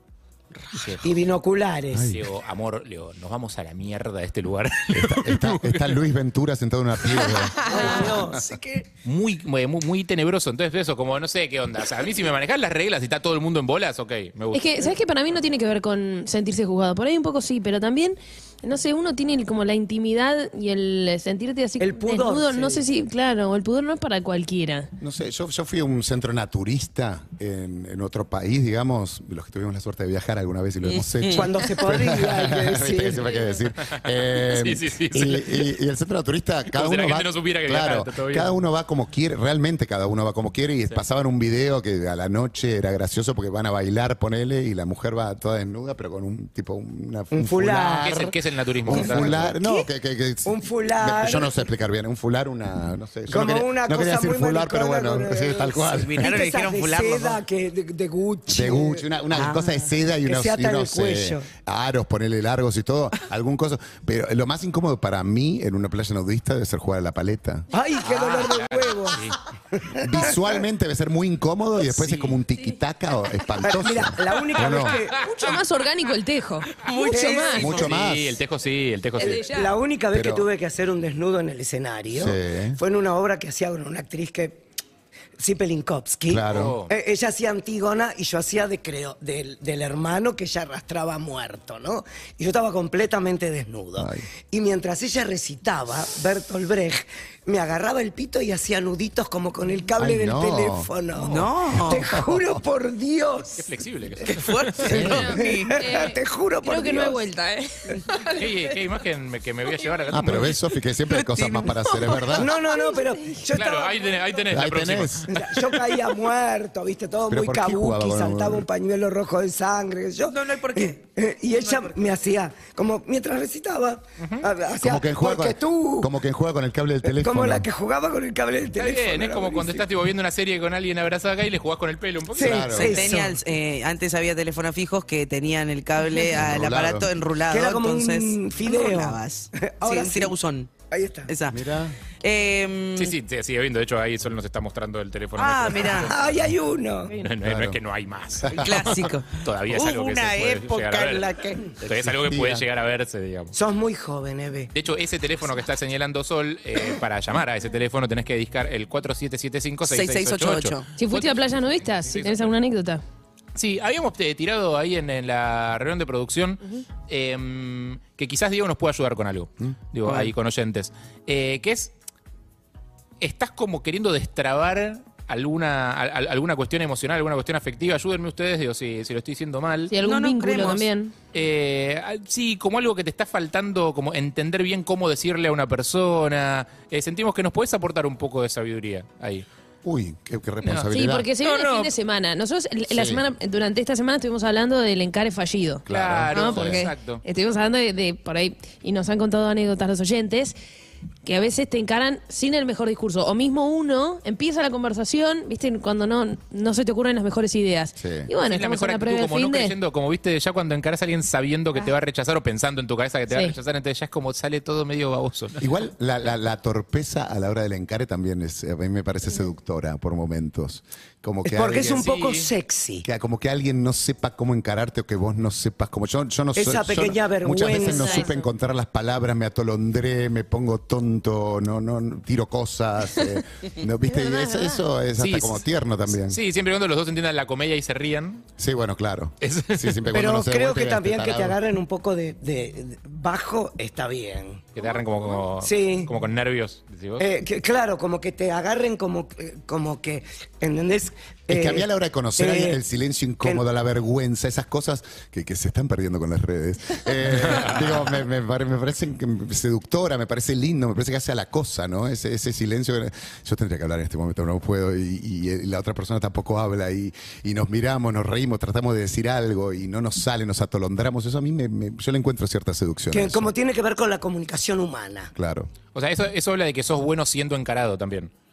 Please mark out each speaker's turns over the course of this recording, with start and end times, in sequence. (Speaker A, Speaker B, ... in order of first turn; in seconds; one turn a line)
Speaker A: 0.7-1.0
Speaker B: 1.0-2.1
Speaker C: 1.9-2.2
Speaker A: 2.0-6.0
Speaker C: 4.9-7.7
Speaker B: 7.6-8.8
Speaker D: 7.7-8.1
Speaker E: 7.8-8.6
Speaker A: 9.1-15.0
Speaker D: 14.5-24.9
Speaker B: 21.8-22.9
Speaker C: 25.0-56.3
Speaker E: 30.9-31.5
Speaker B: 31.3-33.3
Speaker A: 33.9-35.7
Speaker A: 36.7-38.5
Speaker B: 47.3-48.1
Speaker A: 48.0-49.5
Speaker B: 48.9-49.8
Speaker B: 50.5-51.6
Speaker B: 53.3-59.1
Speaker E: 55.9-57.4
Speaker C: 58.5-67.7
Speaker E: 59.3-59.8
Speaker B: 60.2-61.5
Speaker B: 67.7-70.6
Speaker A: 68.0-69.4
Speaker C: 70.0-75.0
Speaker A: 71.9-72.4
Speaker B: 73.6-75.5
Speaker D: 75.2-77.7
Speaker E: 76.8-77.9
Speaker B: 77.1-77.8
Speaker C: 77.6-78.4
Speaker A: 77.7-79.5
Speaker D: 79.2-79.7
Speaker B: 79.2-84.7
Speaker C: 80.1-80.5
Speaker C: 82.1-82.8
Speaker B: 85.4-103.7
Speaker C: 86.3-86.8
Speaker A: 86.5-86.9
Speaker C: 94.0-94.3
Speaker C: 100.0-100.9
Speaker E: 101.2-102.1
Speaker C: 101.9-102.5
Speaker A: 103.6-105.0
Speaker E: 104.3-105.8
Speaker C: 104.8-105.3
Speaker D: 105.1-108.5
Speaker B: 105.3-107.2
Speaker A: 108.4-110.6
Speaker C: 110.1-112.5
Speaker E: 111.1-112.2
Speaker B: 112.3-114.4
Speaker D: 112.8-113.0
Speaker A: 113.5-115.4
Speaker C: 114.5-115.3
Speaker B: 115.3-126.1
Speaker C: 117.3-118.7
Speaker E: 120.3-122.1
Speaker A: 124.2-124.5
Speaker C: 124.8-127.7
Speaker B: 127.0-129.9
Speaker A: 128.8-133.0
Speaker B: 132.3-133.4
Speaker C: 132.4-133.1
Speaker E: 132.8-140.7
Speaker C: 136.3-137.1
Speaker B: 137.5-140.3
Speaker B: 140.9-141.3
Speaker E: 141.3-141.6
Speaker C: 141.5-142.0
Speaker E: 142.2-143.2
Speaker A: 143.0-146.2
Speaker E: 145.4-146.1
Speaker B: 145.9-147.1
Speaker A: 147.2-151.3
Speaker C: 147.4-147.8
Speaker C: 148.4-148.9
Speaker E: 148.6-151.6
Speaker A: 151.8-153.5
Speaker C: 151.9-152.7
Speaker B: 153.5-154.7
Speaker A: 154.7-162.5
Speaker E: 159.9-160.9
Speaker D: 161.0-163.0
Speaker A: 163.6-171.9
Speaker E: 170.1-170.3
Speaker A: 173.2-179.9
Speaker D: 179.9-181.1
Speaker E: 180.0-180.9
Speaker A: 181.3-189.5
Speaker C: 189.8-191.3
Speaker A: 190.6-190.9
Speaker D: 190.9-200.6
Speaker A: 191.4-191.9
Speaker C: 192.9-193.2
Speaker C: 195.9-196.9
Speaker A: 195.9-197.2
Speaker D: 201.2-209.8
Speaker C: 208.0-208.3
Speaker A: 208.5-215.6
Speaker D: 213.3-213.6
Speaker C: 215.6-222.1
Speaker B: 221.5-223.1
Speaker A: 221.7-222.5
Speaker C: 223.0-236.4
Speaker B: 226.6-228.3
Speaker D: 227.7-228.3
Speaker D: 234.1-234.8
Speaker A: 235.2-238.4
Speaker C: 238.6-241.6
Speaker A: 239.4-240.1
Speaker B: 240.1-244.8
Speaker A: 244.8-247.3
Speaker B: 245.6-246.1
Speaker B: 247.2-252.8
Speaker C: 251.5-273.5
Speaker A: 257.3-258.1
Speaker B: 273.1-275.3
Speaker C: 275.4-275.7
Speaker A: 275.9-278.3